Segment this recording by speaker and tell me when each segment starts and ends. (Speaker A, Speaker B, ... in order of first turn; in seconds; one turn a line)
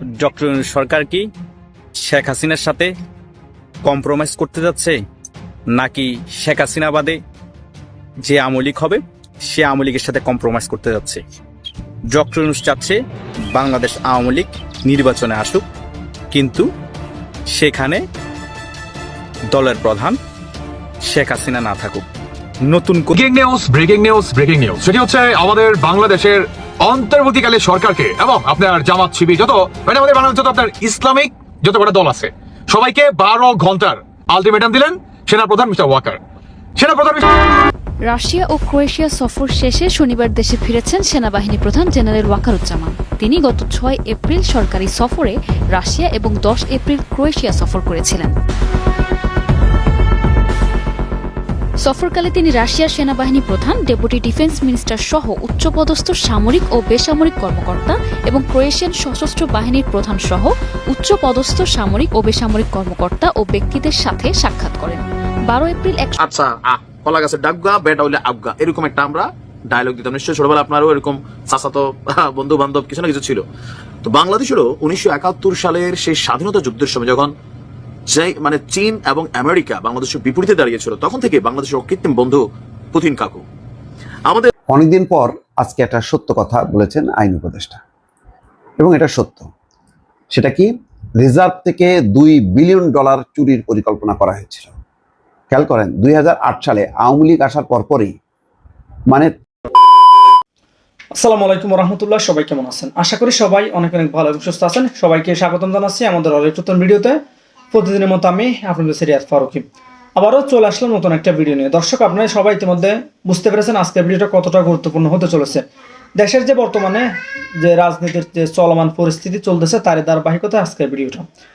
Speaker A: 0.1-1.3
Speaker A: 2.0-2.9
Speaker A: 3.8-5.0
Speaker A: 5.7-7.2
Speaker A: 8.2-11.2
Speaker A: 12.1-13.0
Speaker A: 13.5-15.6
Speaker A: 16.3-16.7
Speaker A: 17.5-18.0
Speaker A: 19.5-20.2
Speaker A: 21.1-22.1
Speaker A: 22.7-23.1
Speaker B: 23.1-36.2
Speaker B: 36.8-37.2
Speaker C: 38.1-48.3
Speaker C: 51.8-66.2
Speaker D: 66.2-73.4
Speaker D: 74.0-77.3
Speaker D: 78.1-82.4
Speaker D: 82.9-83.4
Speaker E: 84.7-87.8
Speaker E: 88.8-89.5
Speaker E: 90.3-94.7
Speaker E: 95.5-98.1
Speaker E: 99.1-99.3
Speaker F: 101.2-107.2
Speaker F: 107.7-115.6
Speaker F: 116.2-117.1
Speaker F: 117.6-121.3